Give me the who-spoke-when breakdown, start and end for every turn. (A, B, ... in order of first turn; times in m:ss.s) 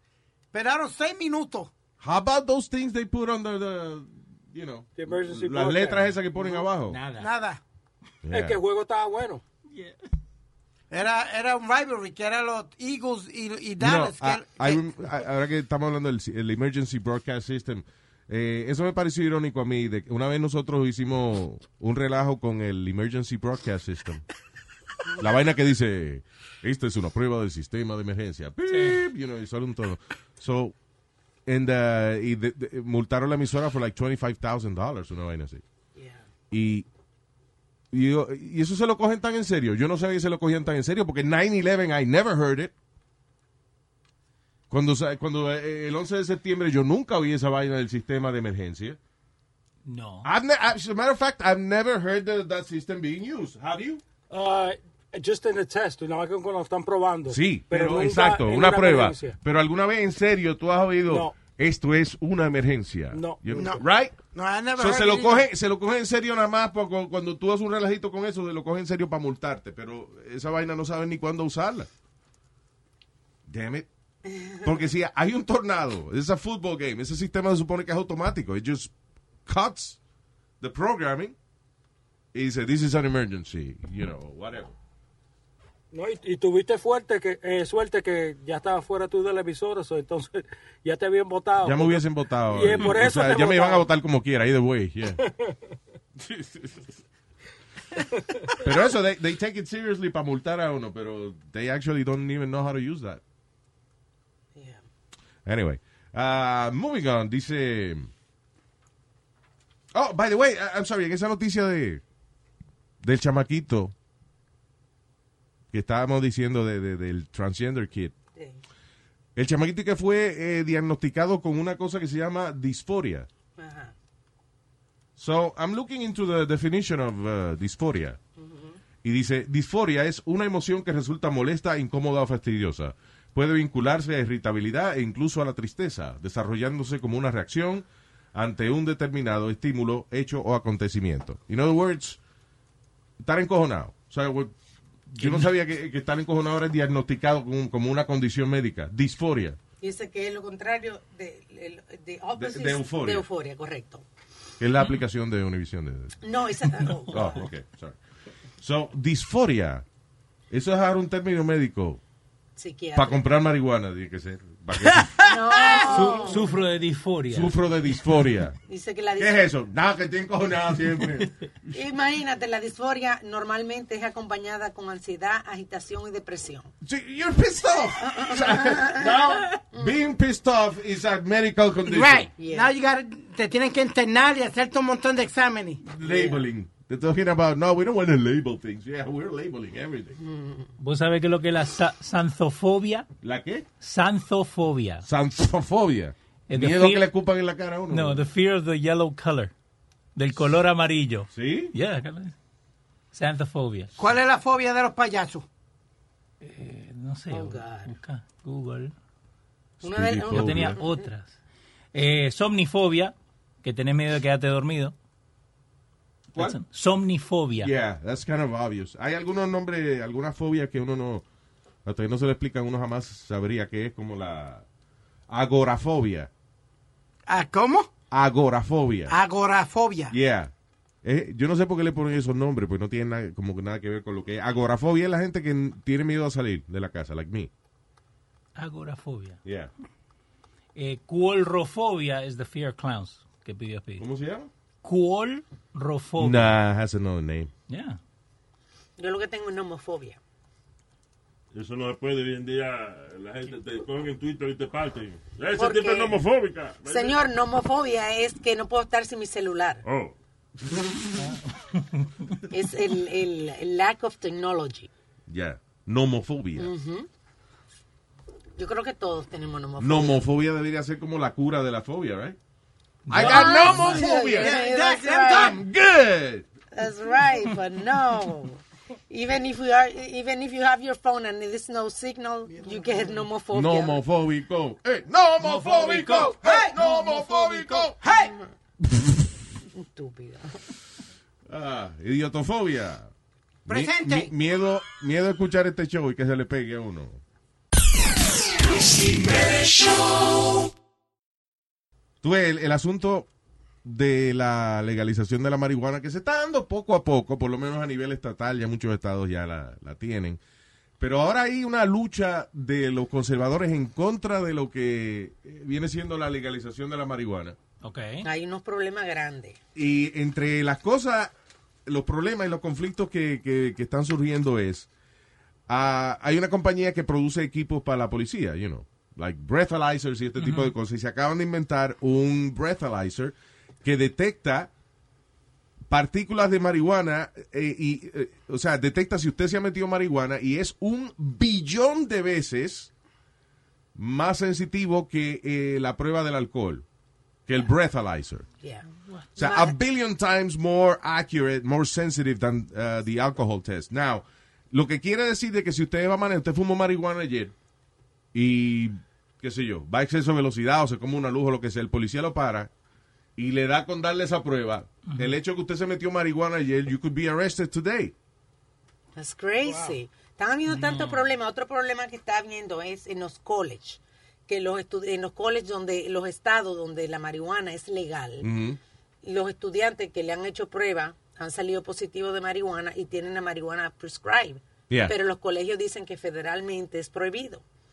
0:00.5-0:01.7 A
0:02.0-0:07.0 B
0:05.0-0:06.6 C
0:06.9-0:07.3 D
0:07.1-0:07.6 A
0:08.2-0:08.6 B
0:08.3-0:09.4 C
0:10.9-0:14.8 A
0:13.8-0:24.2 B
0:25.2-0:30.7 B
0:28.7-0:29.0 D
0:31.5-0:35.6 B
0:36.0-0:36.2 E
0:36.5-0:36.9 B
0:37.9-0:42.7 B
0:44.7-0:49.0 B
0:49.9-0:50.3 D
0:50.2-0:54.0 B
0:54.3-0:59.4 C
0:57.3-1:04.2 B
1:01.1-1:01.4 C
1:03.1-1:03.8 C
1:03.5-1:05.5 A
1:04.8-1:11.9 B
1:13.5-1:13.9 B
1:14.3-1:14.7 E
1:14.6-1:18.9 B
1:19.5-1:20.0 B
1:20.6-1:21.4 B
1:22.3-1:24.8 B
1:25.9-1:33.9 C
1:31.6-1:35.2 B
1:35.2-1:35.5 C
1:36.2-1:36.9 B
1:38.6-1:43.2 B
1:44.6-1:44.8 E
1:45.4-1:48.1 B
1:49.9-1:52.0 B
1:53.0-1:53.9 B
1:55.7-1:58.1 B
1:58.4-1:58.6 E
1:59.4-2:03.3 B
2:03.6-2:03.9 E
2:05.2-2:08.2 B
2:08.4-2:08.8 E
2:09.0-2:22.2 B
2:23.2-2:24.5 B
2:25.1-2:29.6 B
2:25.2-2:25.5 D
2:29.8-2:34.0 E
2:32.4-2:33.3 B
2:34.6-2:36.2 B
2:36.2-2:37.4 E
2:37.1-2:38.0 B
2:38.6-2:39.8 B
2:40.5-2:42.0 B
2:42.6-2:43.2 E
2:42.9-2:45.1 B
2:45.2-2:46.5 E
2:45.8-2:47.5 D
2:47.3-2:48.6 B
2:48.7-2:49.5 E
2:49.2-2:51.3 B
2:51.7-2:56.7 E
2:56.8-3:02.3 B
2:58.0-2:59.9 E
3:01.9-3:05.8 A
3:02.4-3:02.7 E
3:05.8-3:10.2 B
3:06.0-3:06.4 E
3:10.2-3:10.7 E
3:10.8-3:13.1 D
3:13.2-3:13.7 B
3:13.8-3:15.0 D
3:15.0-3:18.3 B
3:16.5-3:17.0 D
3:17.9-3:19.5 D
3:20.2-3:22.3 D
3:21.3-3:21.7 B
3:23.1-3:23.9 D
3:24.0-3:25.5 A
3:26.4-3:28.9 D
3:27.3-3:28.0 E
3:29.8-3:30.8 B
3:29.8-3:31.1 E
3:30.3-3:31.4 D
3:31.9-3:34.9 D
3:36.4-3:37.7 D
3:36.4-3:36.6 B
3:37.6-3:41.2 B
3:41.8-3:44.6 B
3:45.3-3:46.3 B
3:47.3-3:47.9 A
3:48.1-3:49.2 B
3:49.1-3:50.2 A
3:50.1-3:50.5 B
3:51.0-3:57.5 B
3:58.6-3:59.4 D
3:59.4-3:59.7 B
4:00.8-4:04.0 D
4:04.0-4:04.5 B
4:04.8-4:06.6 D
4:06.2-4:07.5 B
4:07.7-4:08.0 D
4:09.0-4:10.2 E
4:11.5-4:17.2 F
4:15.6-4:16.2 E
4:16.9-4:19.8 E
4:19.8-4:20.1 F
4:21.2-4:22.0 D
4:22.5-4:24.9 E
4:25.3-4:26.7 B
4:26.6-4:27.1 E
4:28.6-4:30.2 E
4:29.8-4:32.4 B
4:33.1-4:34.0 D
4:33.1-4:36.4 B
4:33.2-4:35.6 E
4:33.9-4:35.6 A
4:36.7-4:44.0 E
4:42.5-4:43.3 A
4:43.5-4:48.0 B
4:45.4-4:46.4 D
4:46.3-4:46.8 A
4:47.0-4:48.4 E
4:48.0-4:48.4 A
4:49.8-4:50.6 E
4:51.5-4:53.1 B
4:53.7-4:54.3 A
4:53.7-4:57.2 B
5:02.2-5:03.3 B
5:03.8-5:10.4 B
5:11.0-5:17.6 B
5:17.8-5:18.3 D
5:18.2-5:19.6 E
5:19.8-5:21.3 B
5:21.9-5:24.9 B
5:25.7-5:34.7 B
5:30.4-5:30.7 D
5:35.9-5:42.9 B
5:44.0-5:46.8 B
5:47.5-5:48.5 B
5:48.6-5:49.8 E
5:49.4-5:57.5 B
5:58.3-6:02.7 B
6:03.4-6:08.1 B
6:09.2-6:18.5 E
6:09.7-6:10.0 C
6:10.7-6:11.2 D
6:18.4-6:18.8 B
6:19.2-6:27.6 E